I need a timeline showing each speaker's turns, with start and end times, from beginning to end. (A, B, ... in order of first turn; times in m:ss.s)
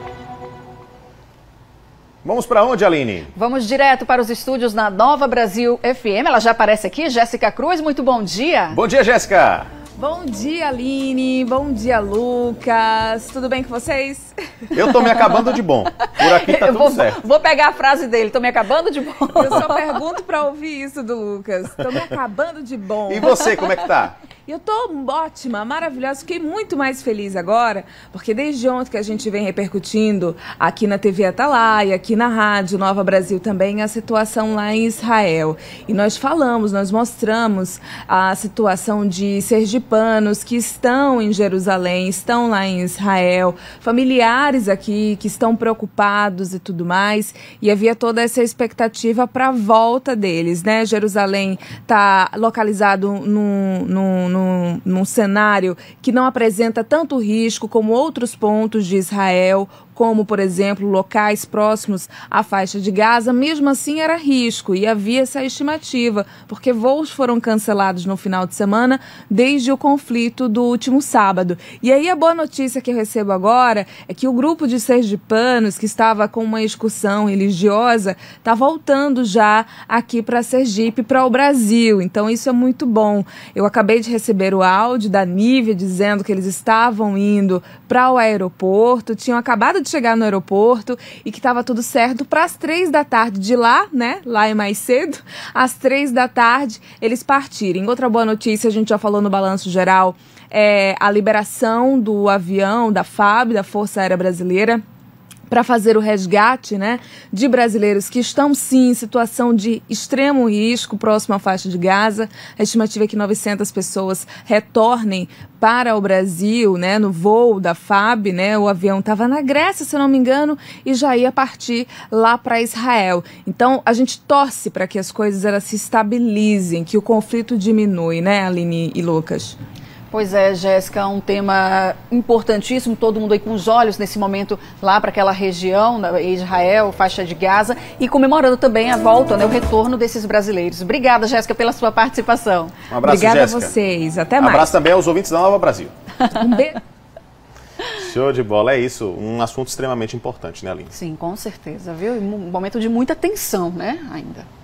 0:02.2-0:03.3 A
0:03.3-0:08.8 B
0:08.7-0:09.7 A
0:10.0-0:14.3 C
0:14.7-0:17.2 A
0:16.2-0:19.8 B
0:19.3-0:23.6 C
0:23.1-0:24.2 A
0:24.4-1:44.8 C
1:45.5-2:09.6 C
2:10.1-2:22.8 B
2:22.9-2:23.7 A
2:23.0-2:24.7 C
2:24.4-2:25.9 A
2:26.3-2:26.8 C
2:27.9-2:30.9 A
2:30.9-2:34.5 B